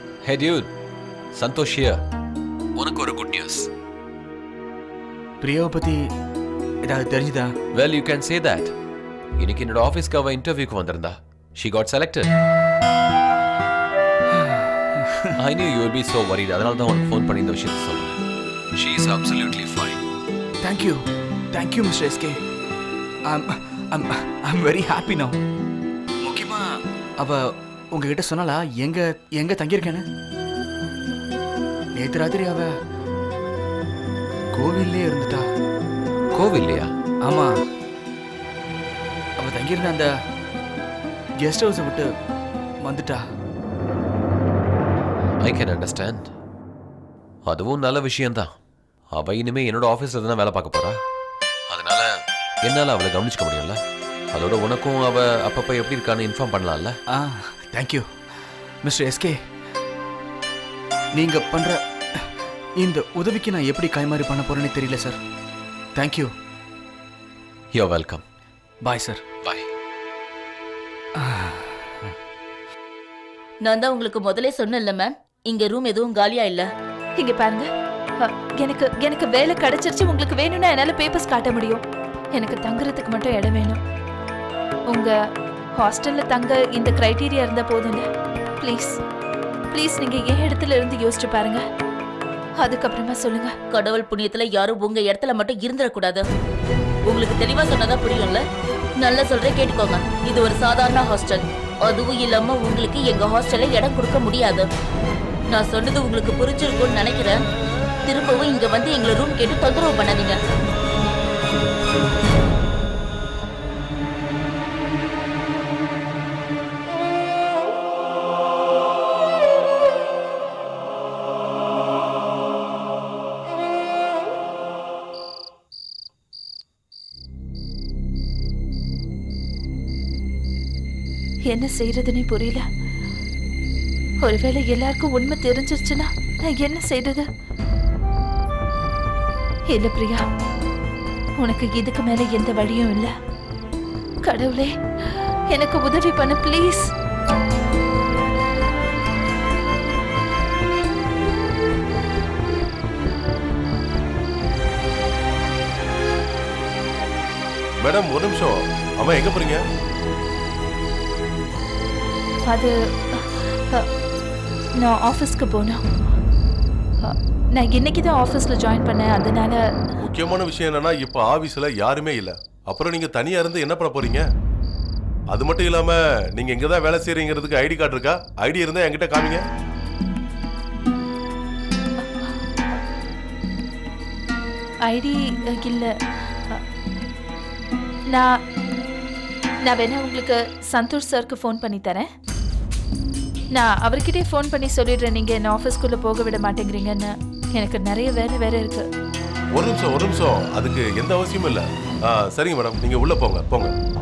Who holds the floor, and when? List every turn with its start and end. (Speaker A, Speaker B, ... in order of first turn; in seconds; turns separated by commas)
Speaker A: 0.2-0.7, Speaker A: 1.3-2.0, Speaker A: 2.8-3.7, Speaker B: 5.4-6.1, Speaker B: 6.8-7.5, Speaker A: 7.7-8.7, Speaker A: 9.4-12.3, Speaker B: 14.3-15.3, Speaker A: 15.4-18.2, Speaker A: 18.7-20.0, Speaker B: 20.6-22.4, Speaker B: 23.3-25.4, Speaker B: 26.2-27.4, Speaker B: 27.9-30.1, Speaker B: 31.9-32.7, Speaker B: 34.5-35.4, Speaker A: 36.3-37.0, Speaker B: 37.2-37.5, Speaker B: 39.4-40.1, Speaker B: 41.4-42.1, Speaker B: 42.8-43.2, Speaker A: 45.4-46.3, Speaker A: 47.5-48.5, Speaker A: 49.1-51.0, Speaker A: 51.7-52.1, Speaker A: 52.6-53.8, Speaker A: 54.3-56.9, Speaker B: 57.1-58.0, Speaker B: 58.8-59.4, Speaker B: 61.1-65.2, Speaker B: 66.0-66.3, Speaker A: 67.7-68.2, Speaker B: 68.8-69.2, Speaker B: 71.2-72.1, Speaker C: 73.6-76.7, Speaker D: 77.2-77.7, Speaker D: 78.2-81.8, Speaker D: 82.3-83.8, Speaker D: 84.9-85.1, Speaker D: 85.8-88.0, Speaker D: 88.6-89.0, Speaker D: 89.7-91.6, Speaker D: 92.6-93.5, Speaker C: 93.7-96.2, Speaker C: 97.1-98.4, Speaker C: 99.0-104.7, Speaker C: 105.5-107.4, Speaker C: 108.1-110.4, Speaker D: 131.5-132.6, Speaker D: 134.2-137.3, Speaker D: 139.7-140.2, Speaker D: 141.4-143.1, Speaker D: 144.2-146.9, Speaker E: 157.8-159.6, Speaker D: 162.5-163.9, Speaker D: 164.8-165.8, Speaker D: 167.0-169.6, Speaker E: 170.0-174.3, Speaker E: 175.3-179.4, Speaker D: 182.0-182.3, Speaker D: 184.9-186.6, Speaker D: 189.6-192.1, Speaker D: 193.5-198.9, Speaker E: 199.5-203.7